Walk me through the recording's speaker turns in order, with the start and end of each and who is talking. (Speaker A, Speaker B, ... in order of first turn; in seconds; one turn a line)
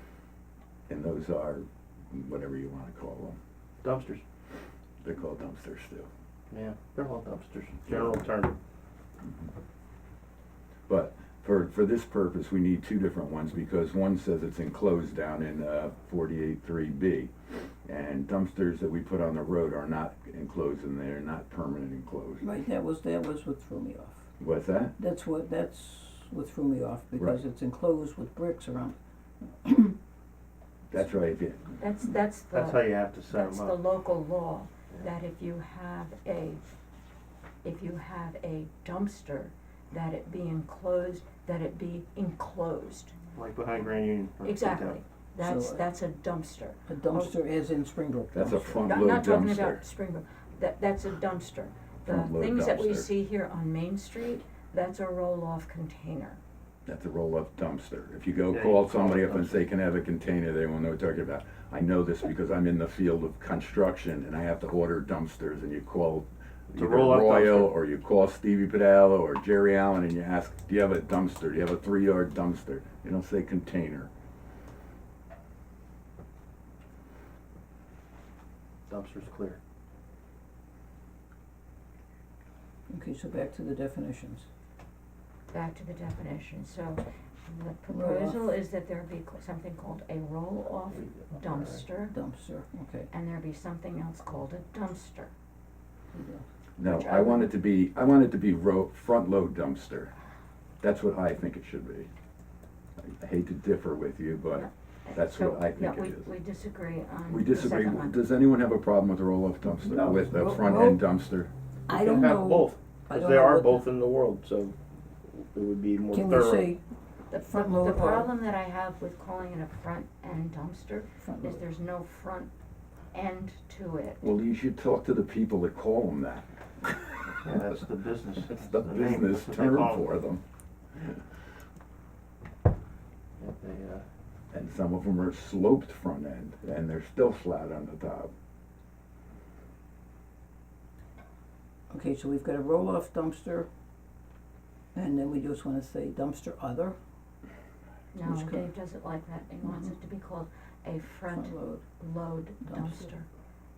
Speaker A: 0.9-3.4
Speaker B: 3.8-4.2
Speaker A: 5.0-6.1
Speaker B: 6.5-8.6
Speaker A: 10.9-17.3
Speaker A: 17.9-22.4
Speaker C: 22.4-24.2
Speaker A: 24.4-24.9
Speaker C: 25.0-29.0
Speaker C: 29.6-29.9
Speaker A: 30.9-31.7
Speaker D: 31.8-36.6
Speaker B: 32.5-33.8
Speaker D: 37.6-43.1
Speaker B: 43.3-45.0
Speaker D: 44.4-47.3
Speaker C: 45.4-45.8
Speaker C: 46.9-48.9
Speaker A: 48.3-49.8
Speaker D: 48.8-56.4
Speaker A: 52.0-53.1
Speaker A: 56.9-74.1
Speaker B: 58.5-59.6
Speaker B: 66.8-67.7
Speaker B: 78.9-79.6
Speaker C: 82.9-84.5
Speaker D: 85.5-92.1
Speaker C: 87.9-88.4
Speaker B: 91.0-91.8
Speaker C: 92.1-93.1
Speaker D: 93.1-95.3
Speaker C: 96.1-96.5
Speaker A: 96.8-100.1
Speaker D: 96.8-97.5
Speaker A: 100.8-102.1
Speaker A: 103.0-106.3
Speaker D: 104.5-108.2
Speaker A: 107.3-111.5
Speaker C: 109.6-111.0
Speaker C: 111.9-113.8
Speaker B: 111.9-116.7
Speaker C: 116.1-118.3
Speaker D: 117.3-122.5
Speaker C: 121.2-121.6
Speaker D: 123.1-124.2
Speaker A: 124.2-127.5
Speaker B: 127.4-130.1
Speaker A: 128.5-130.4
Speaker B: 133.4-134.1
Speaker A: 134.5-138.3
Speaker C: 141.9-143.7
Speaker C: 144.9-146.9
Speaker D: 148.1-153.3
Speaker C: 148.2-148.7
Speaker C: 149.6-149.9
Speaker C: 151.3-151.8
Speaker C: 152.7-153.1